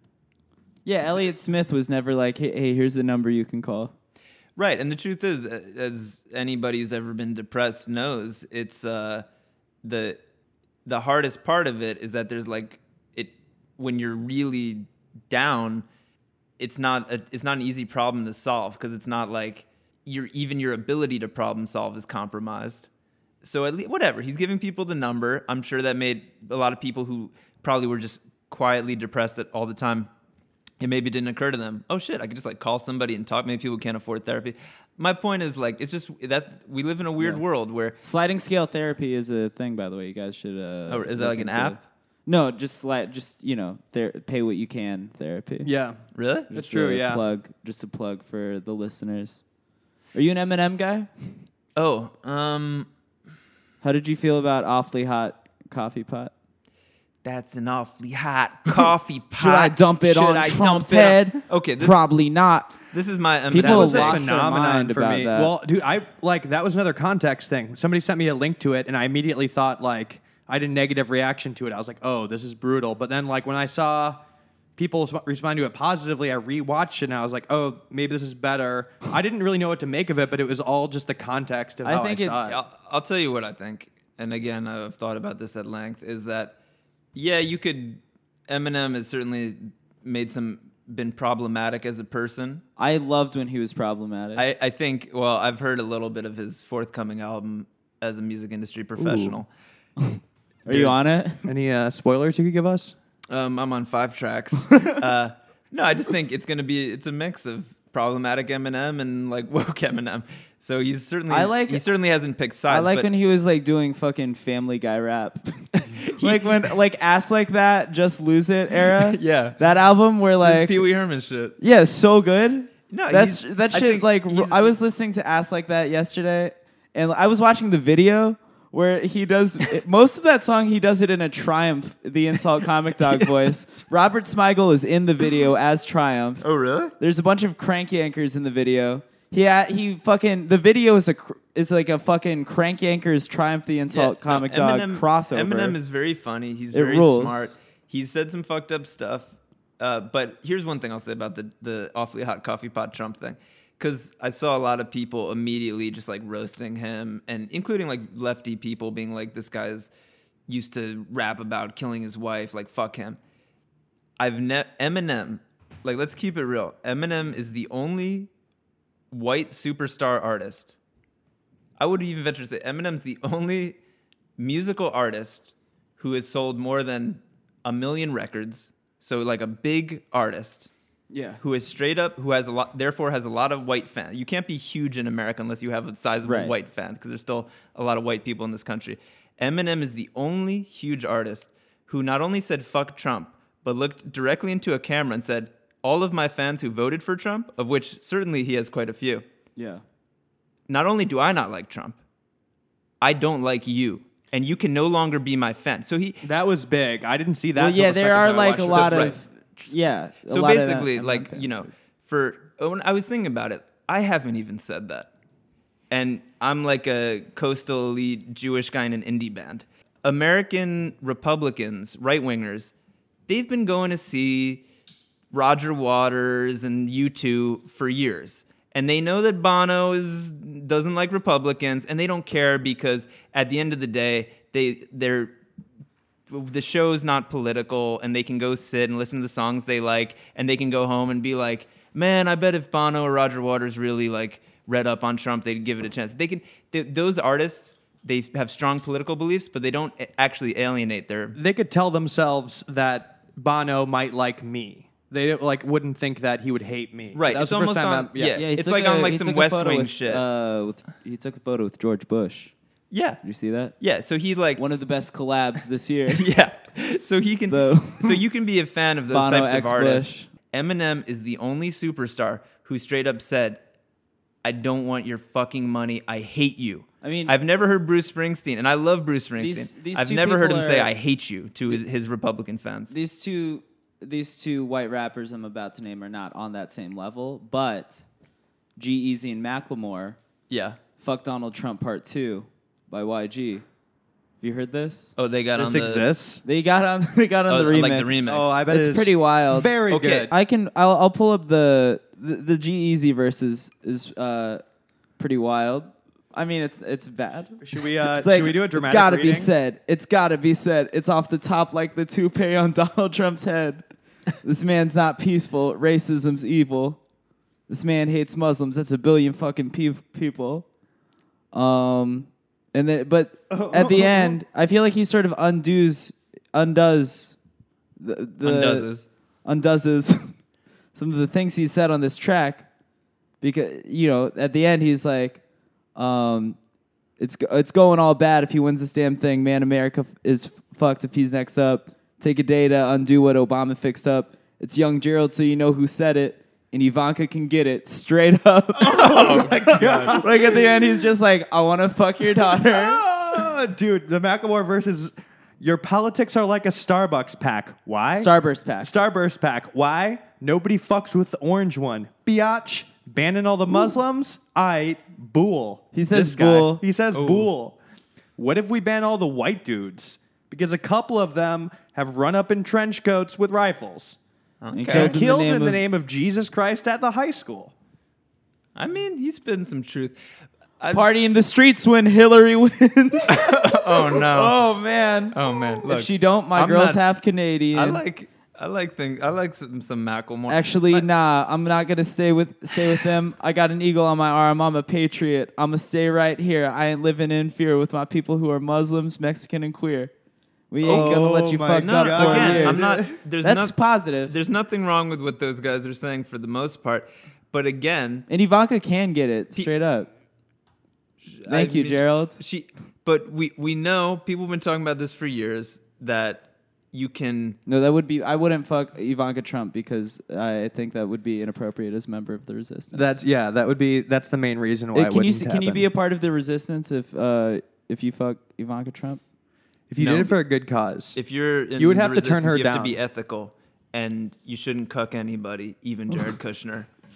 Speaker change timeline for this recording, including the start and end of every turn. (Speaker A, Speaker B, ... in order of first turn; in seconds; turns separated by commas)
Speaker A: 0.8-3.9, Speaker B: 4.6-9.2, Speaker B: 9.8-10.2, Speaker B: 10.8-15.8, Speaker B: 16.6-22.9, Speaker B: 23.4-30.1, Speaker B: 30.8-38.0, Speaker A: 38.0-45.7, Speaker B: 40.9-41.8, Speaker C: 45.6-46.0, Speaker B: 46.1-46.5, Speaker C: 46.5-47.2, Speaker A: 46.5-49.4, Speaker A: 50.1-51.4, Speaker B: 51.8-52.9, Speaker A: 53.8-56.3, Speaker B: 57.2-62.0, Speaker A: 59.3-62.7, Speaker B: 62.9-64.2, Speaker A: 63.5-65.5, Speaker C: 63.6-74.2, Speaker C: 74.8-82.6, Speaker A: 81.8-82.4, Speaker B: 82.5-86.5, Speaker B: 87.1-92.6, Speaker A: 92.8-94.4, Speaker B: 94.3-99.5, Speaker A: 100.0-101.5, Speaker B: 100.7-101.0, Speaker C: 101.4-102.9, Speaker B: 103.3-113.1, Speaker A: 111.3-111.8, Speaker A: 112.7-120.8, Speaker B: 115.8-116.7, Speaker B: 118.9-119.6, Speaker B: 120.4-121.5, Speaker A: 121.6-136.4, Speaker B: 122.9-124.7, Speaker B: 136.4-136.9, Speaker A: 137.0-145.8, Speaker B: 143.9-159.9, Speaker A: 146.7-147.5, Speaker B: 160.5-163.2, Speaker B: 164.2-168.3, Speaker B: 169.1-170.7, Speaker B: 171.8-173.8, Speaker B: 174.4-180.7, Speaker A: 181.1-181.4, Speaker B: 181.4-199.2, Speaker A: 186.2-186.5, Speaker A: 199.6-199.8, Speaker B: 200.7-202.0, Speaker B: 203.0-206.2, Speaker C: 206.2-209.2, Speaker A: 207.5-211.7, Speaker B: 208.2-209.2, Speaker B: 210.3-215.1, Speaker B: 215.9-222.7, Speaker B: 223.3-224.6, Speaker B: 225.3-235.3, Speaker B: 236.3-251.4, Speaker C: 251.3-258.4, Speaker B: 257.1-260.2, Speaker A: 258.3-262.5, Speaker B: 262.9-263.2, Speaker A: 263.2-263.7, Speaker B: 263.8-264.6, Speaker A: 264.6-266.3, Speaker B: 266.1-273.6, Speaker A: 267.5-268.2, Speaker A: 269.1-270.3, Speaker B: 274.4-282.9, Speaker A: 277.0-277.3, Speaker A: 279.4-280.9, Speaker A: 282.9-288.0, Speaker A: 288.8-290.2, Speaker B: 290.5-290.8, Speaker A: 291.0-293.6, Speaker A: 294.4-295.1, Speaker B: 295.2-296.1, Speaker C: 295.6-296.4, Speaker A: 296.4-304.6, Speaker B: 297.5-298.6, Speaker C: 298.2-300.3, Speaker B: 299.9-300.3, Speaker A: 305.2-313.8, Speaker C: 307.6-309.5, Speaker A: 314.4-317.0, Speaker A: 317.7-320.6, Speaker A: 321.5-327.4, Speaker C: 323.5-324.4, Speaker A: 328.0-328.9, Speaker B: 328.4-329.0, Speaker A: 329.4-330.4, Speaker A: 330.9-332.7, Speaker A: 333.4-335.4, Speaker A: 335.9-336.6, Speaker A: 337.2-353.0, Speaker C: 348.8-350.6, Speaker B: 348.9-350.2, Speaker C: 352.6-367.8, Speaker A: 358.1-359.0, Speaker A: 365.9-366.8, Speaker B: 367.1-367.5, Speaker C: 368.4-374.2, Speaker B: 374.6-375.2, Speaker A: 374.7-375.8, Speaker C: 374.9-377.7, Speaker B: 378.7-380.1, Speaker B: 380.8-381.1, Speaker A: 380.9-388.0, Speaker B: 383.3-384.6, Speaker B: 385.3-387.0, Speaker B: 387.7-391.1, Speaker A: 390.5-400.1, Speaker A: 400.7-404.4, Speaker C: 400.8-403.1, Speaker B: 400.8-408.3, Speaker A: 408.3-410.1, Speaker B: 411.2-417.6, Speaker A: 411.4-412.4, Speaker A: 417.6-423.2, Speaker C: 422.9-425.9, Speaker A: 424.9-429.2, Speaker C: 429.9-431.2, Speaker B: 431.1-436.9, Speaker C: 431.8-433.0